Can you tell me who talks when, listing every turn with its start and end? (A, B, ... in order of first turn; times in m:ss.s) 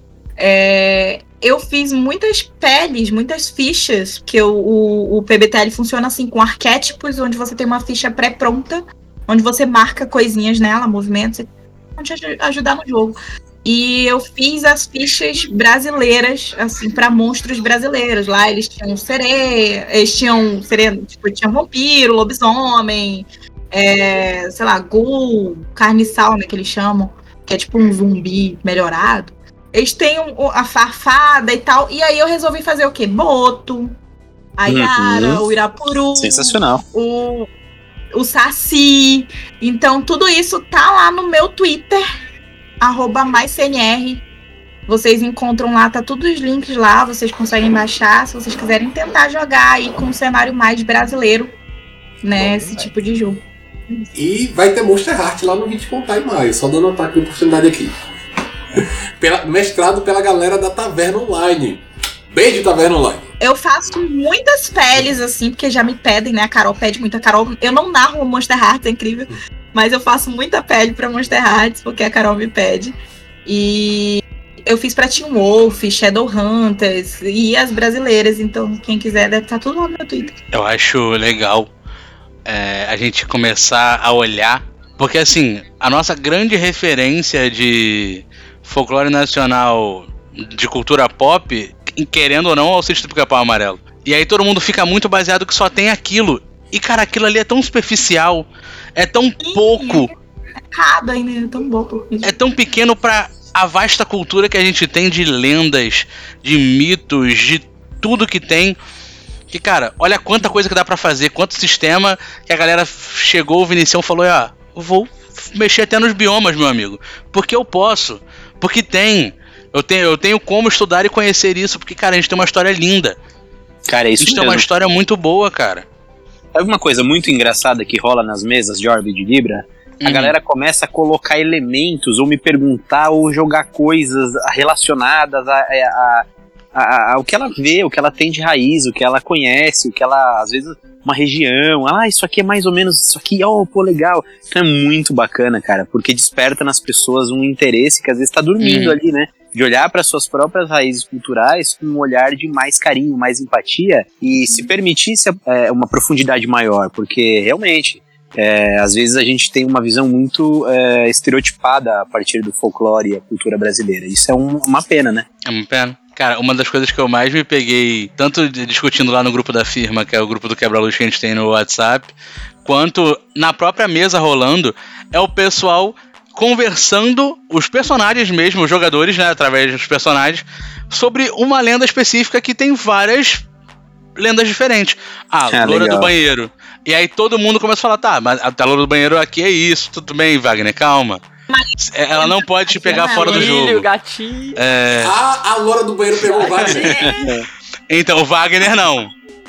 0:00.4-0:34.0 A
0:34.6-0:37.5 A
0:34.7-0:35.4 B
0:36.2-0:36.8 B
0:38.1-0:42.0 A
0:42.8-0:44.2 A
0:44.9-0:51.5 A
0:52.2-0:54.1 A
0:52.4-0:52.9 C
0:54.2-0:58.0 D
0:58.8-1:03.3 D
1:03.4-1:13.0 A
1:13.5-1:20.4 A
1:20.5-1:21.7 E
1:22.5-1:40.1 E
1:39.4-1:40.1 A
1:40.7-1:42.3 A
1:42.2-1:48.8 E
1:49.5-2:03.2 E
2:03.9-2:04.7 B
2:04.2-2:05.8 E
2:06.6-2:45.3 B
2:10.0-2:10.4 E
2:28.6-2:29.0 E
2:45.5-2:52.1 E
2:52.6-3:03.4 E
3:04.2-3:11.2 E
3:05.5-3:06.1 B
3:11.5-3:13.6 A
3:11.8-3:13.9 E
3:12.9-3:14.6 C
3:14.6-3:15.1 E
3:15.0-3:17.1 D
3:16.4-3:17.1 A
3:17.0-3:17.5 B
3:17.9-3:19.1 E